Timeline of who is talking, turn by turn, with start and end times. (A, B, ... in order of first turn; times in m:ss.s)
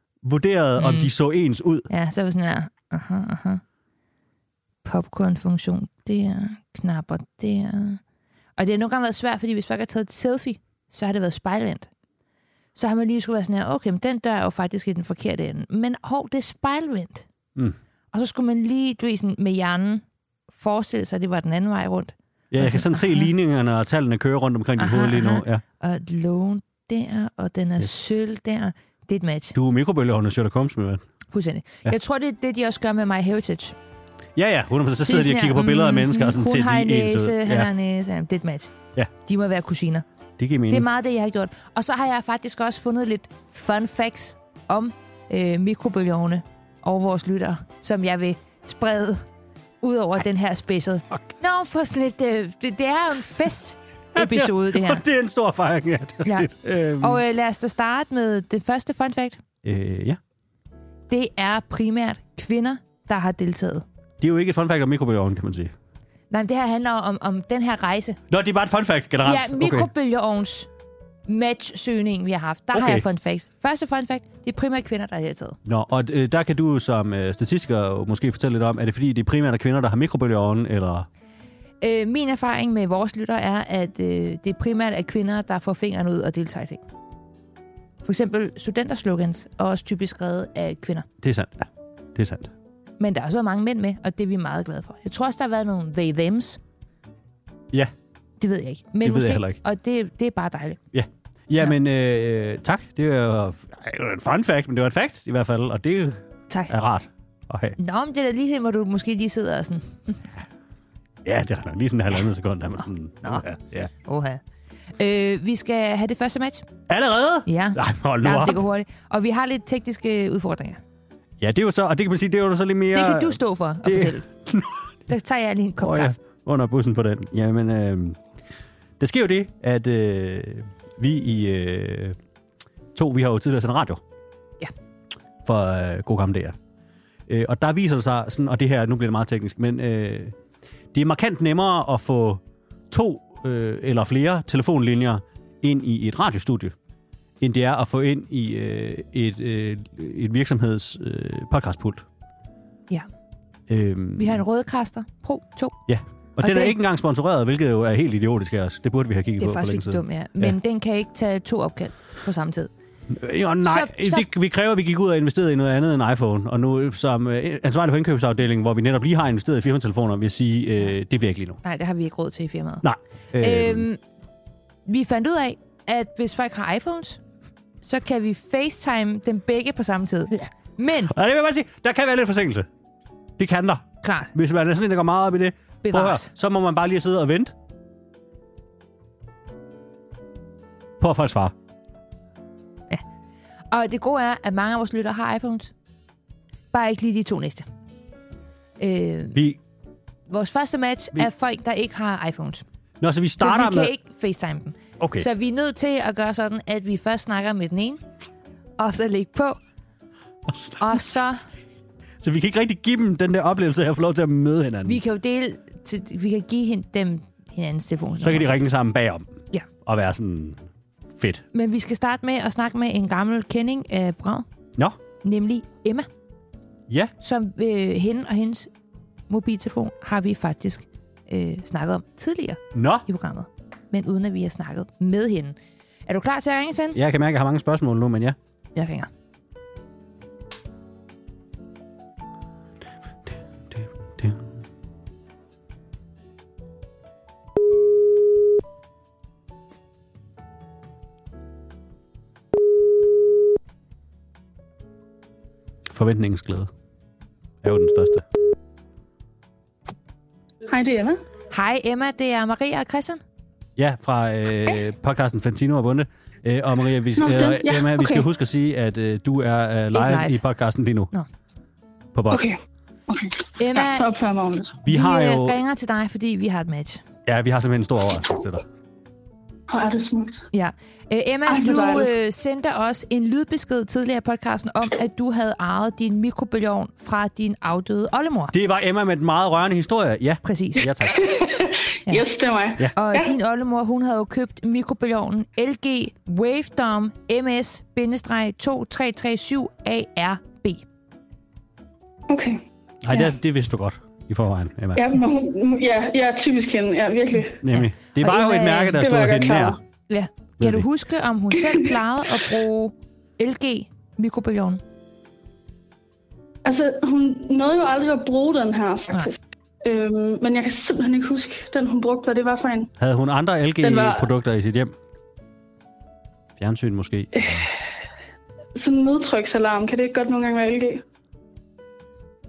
0:00.2-0:01.9 A
0:00.8-0:01.1 B
0:01.9-0:03.6 B
0:04.8-0:08.0 B
0:08.6-0:11.9 B
0:12.8-0:17.3 B
0:18.1-0:23.3 B
0:22.5-0:25.6 A
0:24.8-0:29.5 B
0:29.5-0:31.0 A
0:31.3-0:33.8 B
0:34.4-0:37.7 A
0:35.0-0:38.7 B
0:39.2-0:40.0 B
0:40.4-0:40.9 A
0:40.7-0:49.2 B
0:49.8-0:55.0 B
0:54.1-0:57.2 A
0:57.0-0:59.4 B
0:59.6-1:00.2 A
1:01.1-1:03.8 B
1:04.2-1:05.7 A
1:06.3-1:08.2 B
1:08.3-1:09.9 A
1:09.2-1:10.7 B
1:11.3-1:15.6 B
1:12.7-1:13.0 A
1:15.6-1:21.1 A
1:21.8-1:26.8 B
1:28.0-1:31.1 B
1:31.2-1:32.5 A
1:33.0-1:36.6 B
1:38.4-1:40.8 B
1:39.0-1:39.6 A
1:40.9-1:47.8 A
1:47.8-1:50.2 B
1:51.2-1:53.9 A
1:54.0-1:54.4 B
1:55.0-1:56.6 B
1:56.9-1:58.6 A
1:57.4-2:00.8 B
2:01.4-2:04.9 A
2:02.9-2:04.2 B
2:05.1-2:06.1 B
2:05.8-2:08.2 A
2:09.0-2:12.2 A
2:12.9-2:14.0 A
2:15.4-2:16.6 A
2:17.3-2:20.3 A
2:20.9-2:26.7 A
2:27.4-2:32.0 A
2:33.7-2:34.4 A
2:34.2-2:35.8 B
2:35.9-2:40.5 A
2:36.4-2:36.8 B
2:39.4-2:42.7 B
2:43.1-2:51.6 A
2:43.6-2:44.3 B
2:51.6-2:52.8 B
2:52.8-2:53.8 A
2:53.4-2:54.0 B
2:54.9-2:57.2 B
2:57.8-3:01.1 B
3:01.0-3:02.7 A
3:03.4-3:07.5 A
3:04.0-3:04.3 B
3:05.8-3:06.3 B
3:11.0-3:11.5 A
3:13.7-3:15.7 B
3:16.7-3:17.7 B
3:18.8-3:19.4 B
3:20.3-3:22.6 B
3:23.0-3:23.9 A
3:23.4-3:28.0 B
3:25.0-3:25.3 A
3:28.8-3:29.6 B
3:30.4-3:31.0 A
3:30.8-3:31.4 B
3:32.2-3:35.0 A
3:34.8-3:38.6 B
3:38.2-3:39.3 A
3:39.8-3:40.6 A
3:41.2-3:41.4 A
3:41.5-3:44.4 B
3:45.2-3:46.1 B
3:47.2-3:48.7 B
3:49.3-3:55.6 B
3:52.7-3:53.0 A
3:56.1-3:57.0 B
3:56.9-3:58.4 A
3:58.7-3:59.1 B
4:03.7-4:04.4 A
4:15.9-4:16.7 A
4:17.6-4:18.2 A
4:20.7-4:21.2 C
4:21.5-4:23.2 B
4:23.8-4:31.1 A
4:27.2-4:28.3 C
4:29.9-4:30.4 B
4:32.1-4:32.4 A
4:32.3-4:34.8 C
4:33.6-4:34.1 B
4:34.8-4:35.6 A
4:34.9-4:37.0 B
4:37.2-4:38.6 A
4:39.7-4:40.5 C
4:40.5-4:48.5 B
4:41.5-4:42.1 C
4:48.5-4:51.2 A
4:50.4-4:50.8 B
4:51.1-4:53.3 C
4:52.9-5:00.8 B
5:02.3-5:02.6 C
5:03.0-5:05.0 A
5:05.0-5:07.6 C
5:07.6-5:09.8 A
5:07.7-5:09.0 B
5:09.0-5:09.8 C
5:10.1-5:14.8 B
5:10.6-5:10.9 A
5:16.6-5:22.9 C
5:23.0-5:24.9 A
5:23.8-5:24.3 C
5:26.6-5:27.7 A
5:27.4-5:27.7 C
5:28.8-5:31.0 C